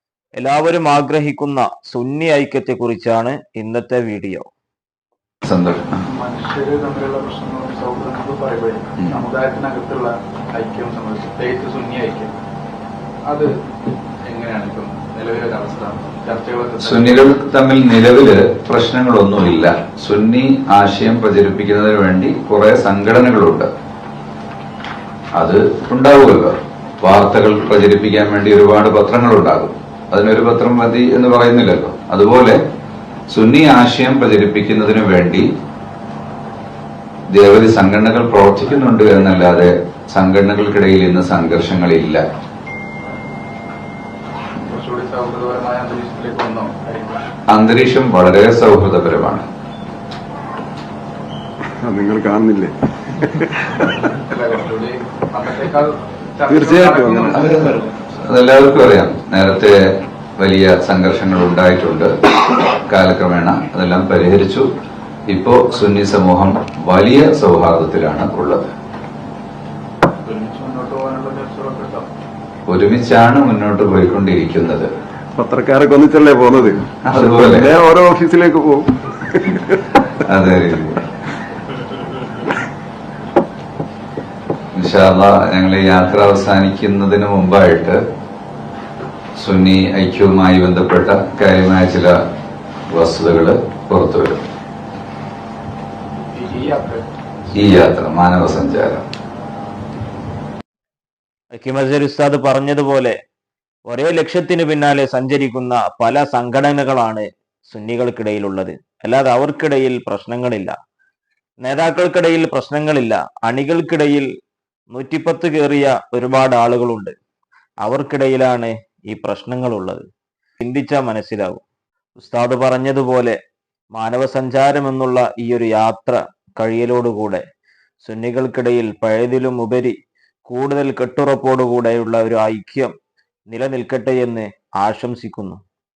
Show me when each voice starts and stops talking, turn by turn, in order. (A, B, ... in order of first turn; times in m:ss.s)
0:00.4-0:04.5 A
0:05.4-0:06.0 B
0:06.0-0:12.4 C
0:14.3-0:17.2 C
0:16.8-0:23.7 B
0:25.3-0:32.6 B
0:33.3-0:35.5 B
0:37.3-0:42.2 B
0:44.6-0:47.2 C
0:47.5-0:49.4 B
0:51.8-0:53.9 D
0:54.2-0:57.8 C
0:56.5-0:57.8 D
0:58.2-0:59.8 B
1:00.4-1:02.1 B
1:02.9-1:04.6 B
1:05.3-1:08.7 B
1:10.2-1:12.0 C
1:12.7-1:14.9 B
1:15.4-1:19.8 D
1:17.0-1:17.7 B
1:20.2-1:21.0 B
1:24.7-1:28.0 B
1:29.4-1:32.1 B
1:32.9-1:34.4 B
1:36.3-1:37.0 C
1:37.5-1:39.0 B
1:41.6-1:43.2 A
1:43.9-1:50.7 A
1:51.6-1:54.3 A
1:54.9-1:57.1 A
1:57.8-2:00.0 A
2:00.6-2:01.6 A
2:02.2-2:03.4 A
2:03.9-2:07.4 A
2:08.0-2:10.0 A
2:10.5-2:12.9 A
2:13.5-2:15.6 A